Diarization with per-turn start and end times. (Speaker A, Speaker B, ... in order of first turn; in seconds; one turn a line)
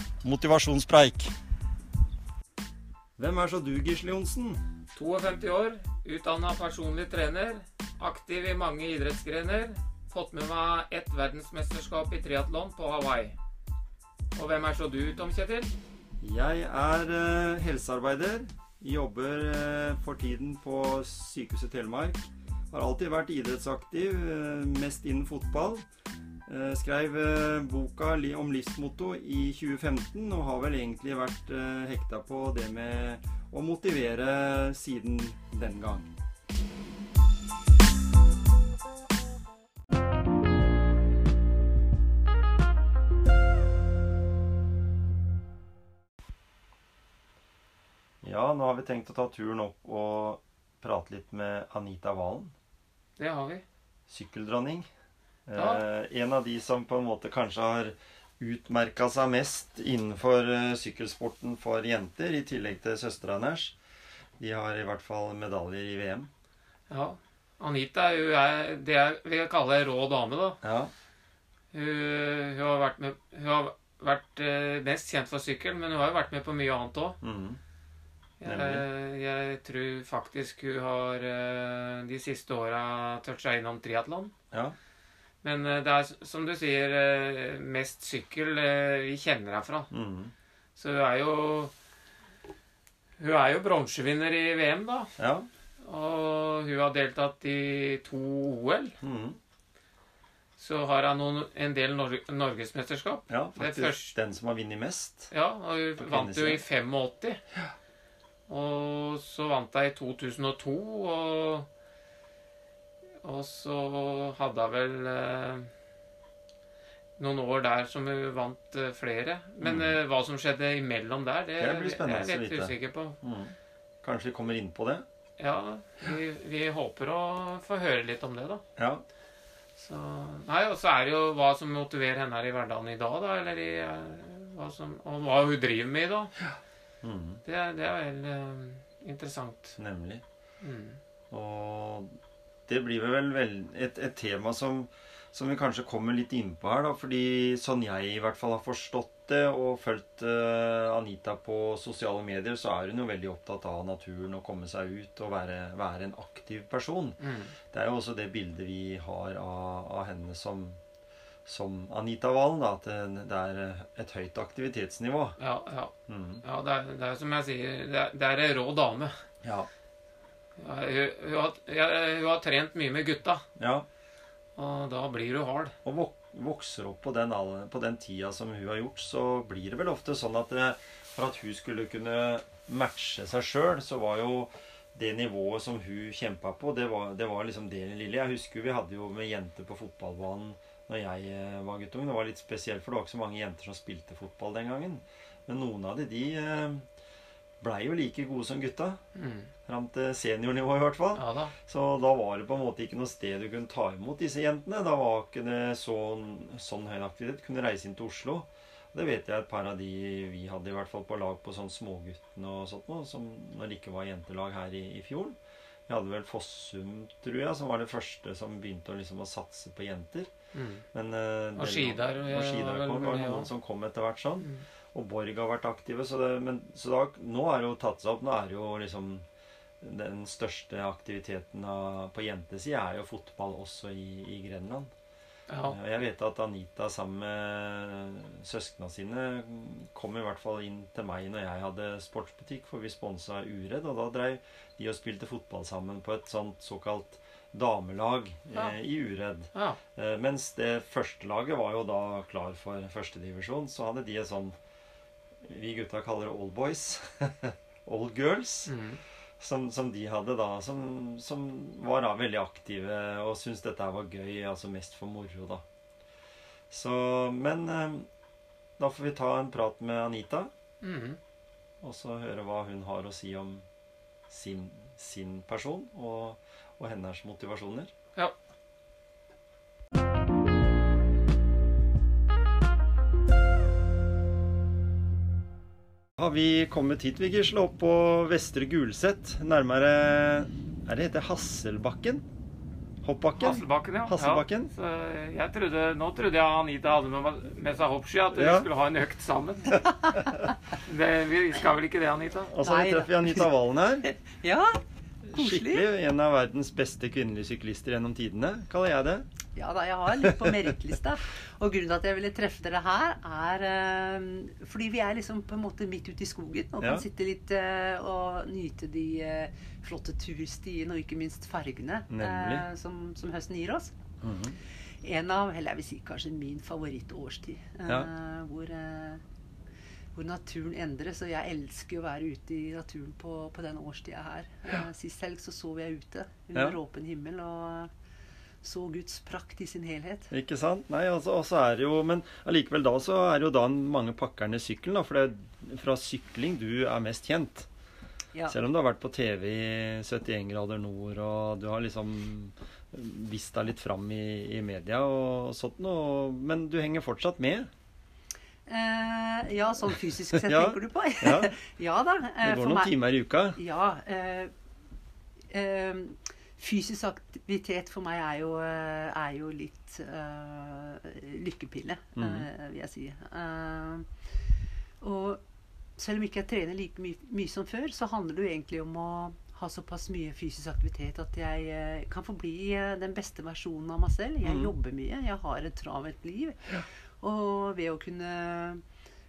Speaker A: 0.2-1.3
Speaker A: 3.2-4.7
Speaker B: 5.0-13.4
Speaker B: 14.3-15.7
Speaker A: 16.2-25.9
Speaker A: 26.5-36.1
Speaker A: 48.2-52.5
Speaker B: 53.2-53.6
Speaker A: 54.1-54.9
Speaker A: 55.5-63.8
Speaker B: 55.6-55.8
Speaker A: 64.4-66.3
Speaker B: 66.9-70.6
Speaker A: 70.6-70.9
Speaker B: 71.7-77.2
Speaker A: 77.2-77.6
Speaker B: 78.4-84.3
Speaker A: 78.4-78.8
Speaker B: 85.4-89.9
Speaker A: 89.9-90.3
Speaker B: 90.8-91.7
Speaker B: 93.2-95.1
Speaker A: 95.2-95.5
Speaker B: 95.8-99.0
Speaker A: 99.0-99.4
Speaker B: 100.6-104.1
Speaker A: 103.3-105.3
Speaker B: 105.3-107.4
Speaker A: 106.0-106.6
Speaker B: 108.5-111.7
Speaker B: 113.2-115.7
Speaker B: 117.2-123.2
Speaker A: 119.6-120.0
Speaker A: 121.6-125.1
Speaker B: 125.4-128.6
Speaker A: 128.8-129.1
Speaker B: 129.8-136.3
Speaker A: 137.0-137.4
Speaker B: 137.4-139.8
Speaker A: 139.8-140.2
Speaker B: 140.6-141.0
Speaker A: 141.3-157.2
Speaker B: 157.2-157.5
Speaker A: 157.7-160.8
Speaker A: 161.5-165.4
Speaker B: 165.4-169.2
Speaker A: 166.1-166.4
Speaker A: 169.4-169.7
Speaker B: 170.6-173.4
Speaker A: 173.6-173.9
Speaker B: 174.6-175.7
Speaker A: 175.8-196.9
Speaker A: 197.6-199.0
Speaker B: 199.2-199.5
Speaker A: 199.7-220.3
Speaker B: 201.2-201.5
Speaker B: 220.5-220.8
Speaker A: 220.9-229.3
Speaker B: 221.6-223.5
Speaker A: 229.8-234.9
Speaker B: 235.5-235.8
Speaker A: 235.6-254.6
Speaker B: 249.5-249.8
Speaker A: 255.4-258.7
Speaker B: 258.7-259.0
Speaker A: 259.4-265.6
Speaker A: 266.7-268.1
Speaker A: 268.8-270.5
Speaker B: 270.8-271.2
Speaker A: 271.8-273.6
Speaker A: 274.3-277.9
Speaker A: 286.2-292.3
Speaker A: 293.0-294.7
Speaker B: 293.4-299.9
Speaker A: 298.3-298.7
Speaker B: 300.7-302.5
Speaker A: 302.5-304.1
Speaker C: 302.6-303.5
Speaker C: 304.0-304.8
Speaker A: 305.2-309.3
Speaker C: 305.4-305.9
Speaker C: 309.6-323.9
Speaker A: 310.2-310.7
Speaker A: 322.1-322.7
Speaker A: 324.2-324.6
Speaker C: 325.0-329.2
Speaker C: 330.1-337.9
Speaker C: 338.6-340.3
Speaker A: 340.3-347.7
Speaker A: 348.5-357.7
Speaker C: 358.7-362.9
Speaker A: 360.3-361.6
Speaker A: 362.4-363.6
Speaker C: 363.5-364.5
Speaker C: 365.5-374.1
Speaker A: 372.2-372.5
Speaker C: 375.0-375.4
Speaker C: 376.0-388.8
Speaker A: 384.4-384.7